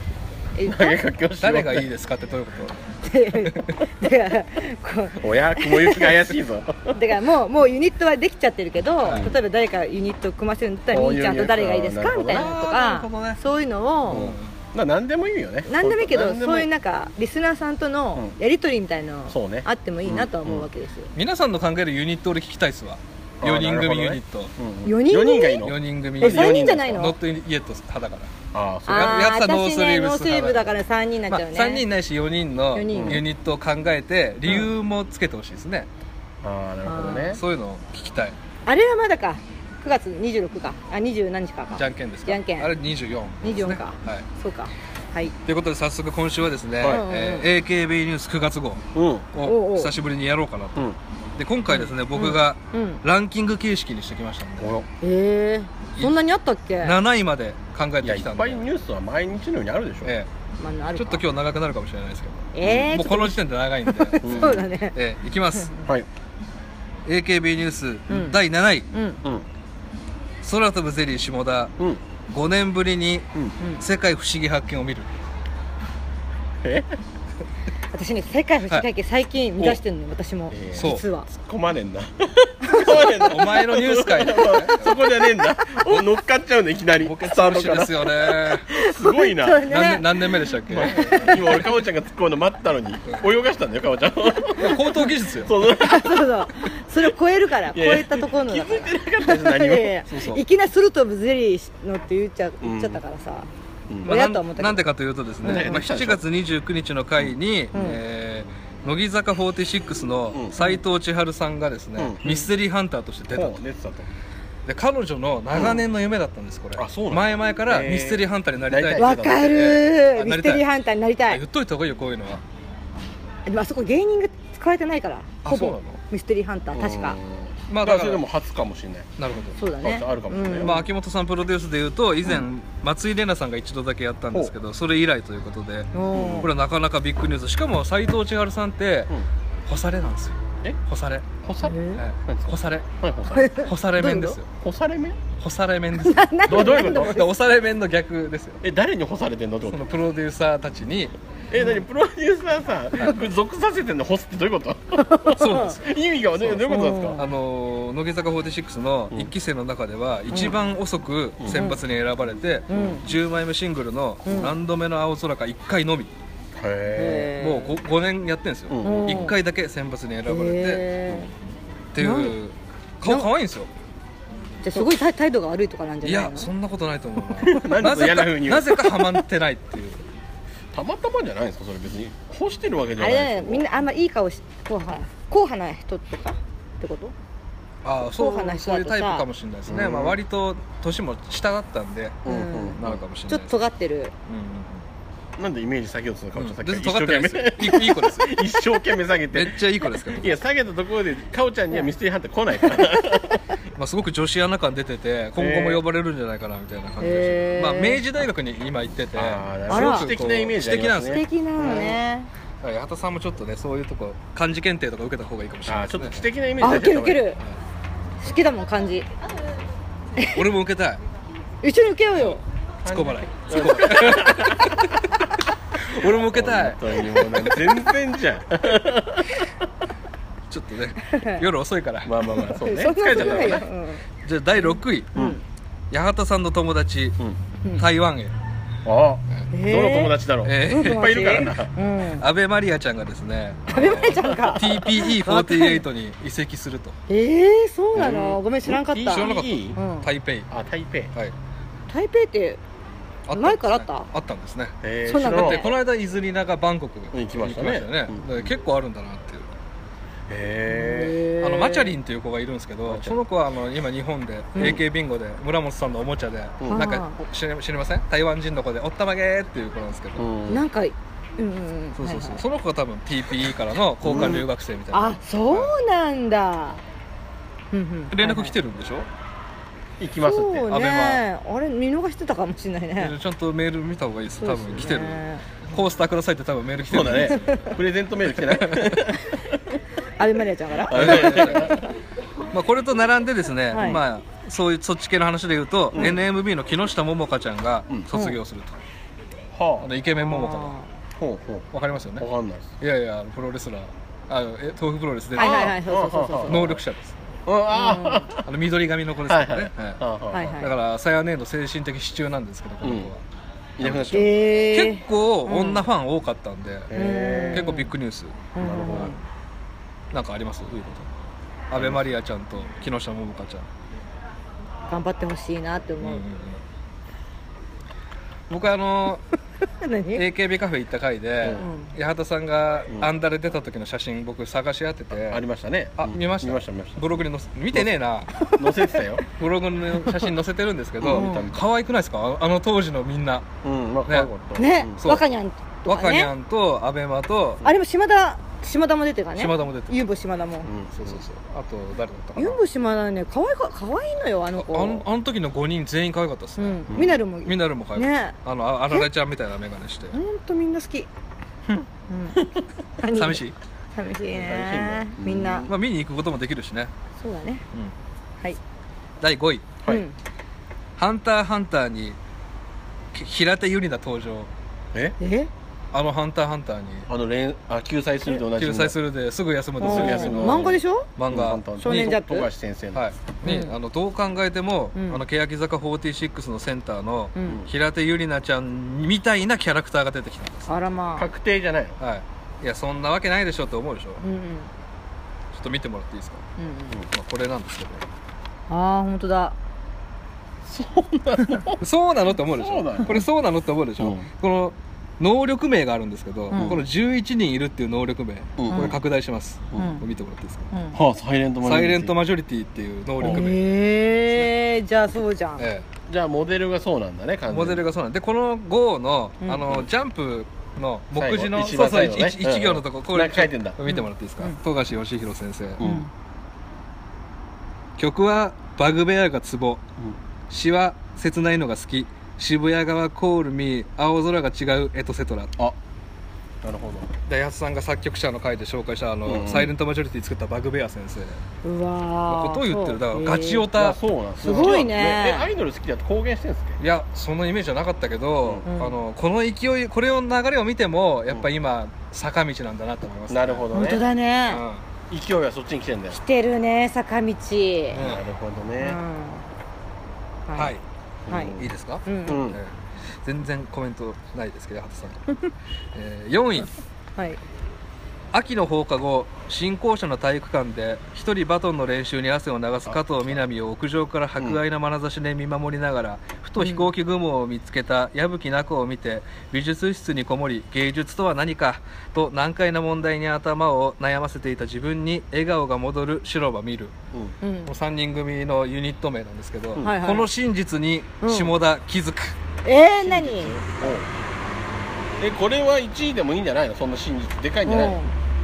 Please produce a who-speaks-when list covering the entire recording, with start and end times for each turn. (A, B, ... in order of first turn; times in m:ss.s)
0:00.6-0:01.0 A
0:00.6-0:01.9 B
0:01.4-0:02.8 C
0:03.0-0:06.2 A
0:03.3-0:03.8 C
0:05.2-0:07.0 B
0:06.9-0:14.3 A
0:09.0-0:09.3 C
0:10.9-0:12.5 B
0:12.3-0:13.4 C
0:14.1-0:14.5 C
0:14.1-0:16.7 B
0:15.7-0:21.1 A
0:19.3-0:20.7 B
0:21.2-0:24.5 C
0:23.4-0:27.1 B
0:24.8-0:25.7 A
0:25.6-0:28.3 C
0:26.2-0:27.2 A
0:28.5-0:29.2 B
0:28.9-0:30.7 C
0:28.9-0:31.8 A
0:31.3-0:35.9 C
0:32.7-0:33.2 A
0:32.9-0:33.2 B
0:36.4-0:37.4 B
0:36.8-0:37.4 A
0:37.0-0:38.4 C
0:38.7-0:42.7 A
0:41.8-0:44.3 C
0:43.4-0:45.3 A
0:45.4-0:54.8 C
0:46.8-0:47.5 A
0:49.0-0:49.3 B
0:49.4-0:49.9 A
0:51.7-0:53.0 A
0:54.6-0:54.9 B
0:55.0-0:57.0 A
0:56.8-0:58.6 C
0:58.0-1:00.2 B
1:00.6-1:01.2 A
1:01.0-1:05.8 C
1:02.5-1:05.0 A
1:02.6-1:03.0 B
1:04.2-1:04.7 B
1:07.1-1:08.9 C
1:08.1-1:08.4 A
1:08.9-1:09.2 A
1:10.4-1:11.7 C
1:12.3-1:15.1 C
1:16.6-1:17.0 B
1:17.9-1:21.3 A
1:20.5-1:29.8 B
1:20.8-1:21.0 C
1:22.7-1:23.1 A
1:22.8-1:25.0 C
1:27.0-1:28.7 C
1:28.7-1:30.3 A
1:29.6-1:31.6 C
1:30.7-1:36.4 B
1:30.9-1:31.3 A
1:34.5-1:35.5 C
1:35.6-1:43.5 A
1:37.7-1:40.0 B
1:40.1-1:40.4 C
1:42.6-1:43.0 B
1:43.9-1:44.2 B
1:44.0-1:44.8 A
1:44.0-1:53.6 C
1:45.4-1:45.8 A
1:45.4-1:46.2 B
1:47.7-1:48.0 A
1:52.0-1:52.3 B
1:53.3-1:54.1 B
1:54.7-2:00.7 C
1:56.8-1:59.7 B
1:59.0-2:01.4 A
2:01.3-2:02.4 C
2:03.5-2:07.2 A
2:05.4-2:06.0 C
2:06.7-2:09.1 B
2:07.7-2:08.2 C
2:09.2-2:09.6 C
2:09.6-2:10.8 A
2:09.8-2:10.8 B
2:10.6-2:19.2 C
2:15.9-2:16.5 A
2:16.1-2:16.5 B
2:19.7-2:21.3 C
2:21.4-2:23.6 B
2:21.6-2:22.0 A
2:22.0-2:22.9 C
2:23.3-2:24.4 A
2:23.6-2:24.5 C
2:24.6-2:25.2 B
2:25.4-2:28.6 C
2:26.0-2:27.3 A
2:26.5-2:27.2 B
2:28.6-2:29.8 B
2:29.7-2:31.1 C
2:31.5-2:37.2 B
2:35.0-2:35.8 A
2:35.3-2:46.1 C
2:36.6-2:37.3 A
2:40.3-2:40.6 A
2:41.4-2:41.7 B
2:41.5-2:41.8 A
2:42.7-2:43.0 A
2:42.7-2:43.0 B
2:44.2-2:44.5 A
2:46.6-2:47.4 B
2:47.0-2:47.8 A
2:47.4-2:50.9 C
2:48.7-2:49.4 B
2:48.8-2:49.4 A
2:50.3-2:51.3 A
2:51.9-2:53.7 C
2:52.0-2:52.4 A
2:54.6-2:56.5 A
2:56.0-3:00.0 C
2:57.4-2:59.0 B
3:00.7-3:03.6 B
3:03.0-3:07.1 A
3:07.8-3:13.6 C
3:08.0-3:09.3 A
3:09.7-3:10.2 B
3:12.2-3:13.0 B
3:12.2-3:14.1 A
3:14.3-3:14.9 C
3:15.4-3:23.4 B
3:16.4-3:18.5 C
3:19.3-3:20.4 C
3:23.8-3:32.0 C
3:25.4-3:25.8 B
3:27.0-3:28.0 A
3:29.1-3:31.9 B
3:29.7-3:30.1 A
3:31.1-3:32.3 A
3:32.6-3:36.2 C
3:35.7-3:37.3 B
3:36.6-3:37.4 A
3:38.2-3:39.1 A
3:40.2-3:41.0 C
3:41.6-3:42.4 A
3:42.2-3:44.9 C
3:42.8-3:45.0 B
3:45.8-3:47.8 C
3:46.3-3:49.4 B
3:50.5-3:52.2 C
3:51.1-3:51.4 A
3:52.0-3:53.7 B
3:52.6-3:54.0 A
3:54.2-3:55.3 C
3:54.6-3:55.4 A
3:55.9-3:57.2 C
3:57.8-3:58.3 C
3:58.8-4:01.7 B
3:59.5-4:02.2 A
4:00.4-4:01.5 C
4:02.2-4:07.0 C
4:03.7-4:05.8 A
4:03.8-4:04.8 B
4:07.1-4:10.1 A
4:07.9-4:09.8 B
4:09.0-4:10.5 C
4:10.5-4:11.1 B
4:11.9-4:12.6 A
4:13.3-4:19.5 C
4:13.3-4:14.1 A
4:14.8-4:15.7 B
4:15.1-4:15.7 A
4:17.1-4:18.5 B
4:20.3-4:21.2 B
4:20.7-4:22.0 A
4:21.4-4:30.3 C
4:22.9-4:23.2 B
4:24.6-4:24.8 A
4:26.6-4:26.9 B
4:26.7-4:27.2 A
4:30.2-4:30.6 B
4:30.5-4:32.4 A
4:32.0-4:35.7 C
4:34.0-4:34.5 B
4:34.2-4:34.4 A
4:34.9-4:36.8 A
4:37.7-4:38.6 A
4:38.1-4:39.1 C
4:40.0-4:40.7 B
4:40.2-4:43.2 A
4:40.7-4:41.2 C
4:43.0-4:47.6 C
4:44.4-4:45.5 A
4:46.8-4:49.6 B
4:48.4-4:49.0 C
4:50.2-4:51.8 A
4:50.9-4:51.9 B
4:50.9-4:51.8 C
4:52.5-4:58.8 C
4:53.7-4:54.0 A
4:56.0-4:56.2 A
4:58.1-4:58.4 A
4:59.5-4:59.9 B
4:59.8-5:00.8 C
5:00.2-5:00.9 A
5:01.2-5:01.7 B
5:01.7-5:02.3 C
5:02.2-5:02.7 B
5:02.8-5:05.8 C
5:05.4-5:06.8 A
5:05.4-5:06.8 B
5:06.5-5:07.3 C
5:07.5-5:08.5 B
5:07.7-5:08.3 A
5:08.4-5:10.0 C
5:09.3-5:10.6 B
5:10.3-5:10.7 A
5:10.6-5:13.2 C
5:12.8-5:13.1 B
5:13.8-5:14.3 B
5:13.8-5:17.0 C
5:14.1-5:15.8 A
5:16.9-5:17.7 B
5:16.9-5:17.9 A
5:17.5-5:19.1 C
5:18.6-5:19.2 A
5:18.6-5:19.1 B
5:20.1-5:21.1 C
5:21.7-5:23.7 C
5:21.8-5:22.1 B
5:24.9-5:26.2 A
5:26.0-5:26.6 C
5:28.5-5:29.2 C
5:29.8-5:30.3 A
5:30.2-5:35.4 C
5:31.6-5:31.9 A
5:35.3-5:37.2 B
5:36.0-5:38.5 C
5:38.5-5:39.2 B
5:39.3-5:43.5 C
5:41.0-5:41.6 B
5:41.1-5:41.5 A
5:43.6-5:45.0 B
5:44.6-5:46.3 A
5:45.0-5:45.2 C
5:45.9-5:47.6 C
5:47.6-5:50.7 A
5:49.4-5:50.0 C
5:50.6-5:51.2 B
5:50.9-5:52.6 C
5:52.4-5:55.0 A
5:54.6-6:00.2 C
5:56.6-5:58.4 A
5:56.9-5:57.2 B
6:00.1-6:01.1 A
6:02.1-6:02.5 A
6:03.0-6:03.4 A
6:03.1-6:03.6 C
6:04.0-6:05.7 A
6:04.3-6:05.7 B
6:05.7-6:06.9 C
6:07.2-6:07.6 A
6:09.2-6:09.7 C
6:09.9-6:10.1 A
6:11.0-6:12.2 C
6:13.1-6:14.5 C
6:15.2-6:15.5 A
6:15.9-6:17.1 C
6:17.1-6:19.0 B
6:18.6-6:22.2 C
6:19.8-6:21.1 A
6:19.8-6:23.0 B
6:21.8-6:22.5 A
6:22.9-6:30.7 C
6:23.4-6:23.7 A
6:25.0-6:25.2 A
6:27.4-6:27.6 A
6:30.7-6:31.3 A
6:31.2-6:32.0 B
6:32.0-6:34.2 C
6:34.2-6:34.7 A
6:35.5-6:36.4 C
6:36.6-6:37.0 A
6:37.1-6:38.0 C
6:38.7-6:39.6 A
6:40.6-6:41.8 B
6:41.8-6:50.7 C
6:42.5-6:43.2 B
6:44.0-6:44.3 B
6:46.5-6:46.8 A
6:46.5-6:46.8 B
6:48.6-6:49.0 B
6:48.7-6:49.0 A
6:49.8-6:50.0 A
6:50.7-6:51.0 A
6:50.9-6:52.1 B
6:51.6-6:53.6 C
6:53.2-6:53.5 B
6:53.2-6:55.7 A
6:55.6-6:55.9 C
6:56.1-6:57.8 B
6:57.5-7:05.9 C
7:01.1-7:03.8 B
7:03.9-7:04.6 A
7:05.8-7:06.1 B
7:05.8-7:06.1 A
7:08.0-7:09.8 C
7:10.5-7:15.6 C
7:16.6-7:17.1 B
7:17.3-7:21.4 C
7:19.3-7:19.7 B
7:21.6-7:23.7 A
7:22.3-7:24.9 C
7:23.7-7:26.8 B
7:24.4-7:25.5 A
7:26.8-7:34.0 C
7:28.6-7:29.0 A
7:33.3-7:34.0 B
7:33.7-7:34.6 A
7:34.5-7:34.8 C
7:35.1-7:36.2 B
7:36.1-7:38.0 A
7:37.9-7:38.2 C
7:38.0-7:39.0 B
7:38.8-7:39.5 A
7:40.5-7:40.7 A
7:40.6-7:40.8 C
7:41.3-7:41.7 B
7:41.3-7:42.5 A
7:41.5-7:45.3 C
7:42.3-7:42.6 B
7:45.9-7:46.7 C
7:48.3-8:06.9 C
7:52.9-7:53.4 B
7:56.6-7:56.9 A
8:07.4-8:07.7 A
8:07.7-8:12.4 C
8:09.8-8:10.3 A
8:11.2-8:11.5 A
8:12.6-8:13.6 A
8:13.0-8:14.1 B
8:15.2-8:18.0 B
8:17.6-8:18.1 A